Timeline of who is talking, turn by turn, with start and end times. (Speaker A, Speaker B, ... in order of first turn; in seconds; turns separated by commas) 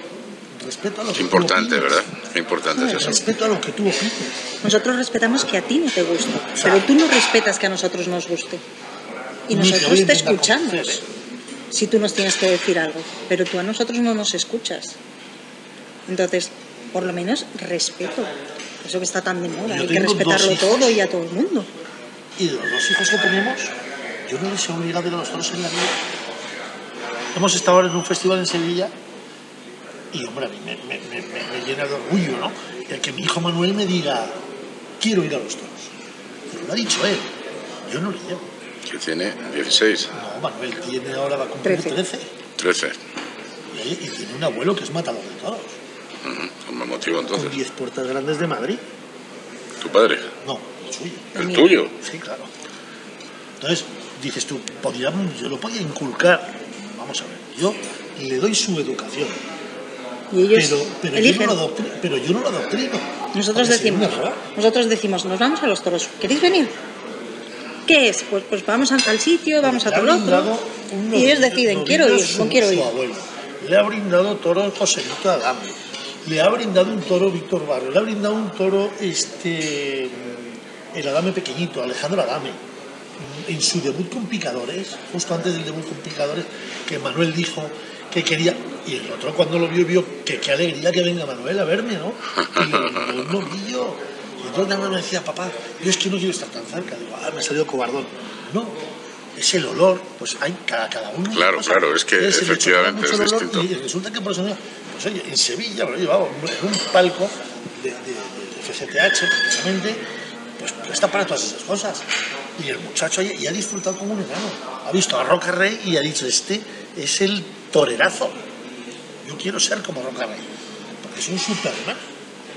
Speaker A: 0.6-2.0, Speaker B: 1.1-3.2, Speaker C: 2.8-3.1, Speaker A: 2.9-4.4, Speaker C: 4.6-8.6, Speaker A: 6.6-6.9, Speaker C: 9.5-11.0, Speaker A: 9.5-11.0, Speaker C: 11.7-15.0, Speaker C: 16.1-21.7, Speaker A: 19.7-21.0, Speaker A: 22.4-23.7, Speaker A: 24.2-26.0, Speaker A: 27.3-28.9, Speaker A: 30.1-34.4, Speaker A: 35.0-35.9, Speaker A: 36.5-37.3, Speaker A: 37.9-38.5, Speaker B: 38.9-40.1, Speaker A: 40.1-42.3, Speaker C: 41.6-42.0, Speaker B: 42.6-43.0, Speaker A: 43.7-45.8, Speaker B: 46.2-47.6, Speaker A: 47.3-48.8, Speaker B: 49.8-50.3, Speaker A: 50.4-51.4, Speaker B: 51.4-51.9, Speaker C: 51.4-51.7, Speaker A: 52.0-52.5, Speaker A: 53.6-59.4, Speaker C: 60.3-61.6, Speaker A: 60.5-64.4, Speaker C: 63.3-66.7, Speaker C: 67.9-70.5, Speaker A: 69.6-82.6, Speaker C: 71.1-72.9, Speaker A: 83.2-98.8, Speaker B: 92.4-93.0, Speaker A: 99.4-110.0, Speaker B: 101.3-103.7, Speaker A: 110.6-112.0, Speaker A: 112.6-118.4, Speaker A: 119.2-120.5, Speaker A: 121.0-122.0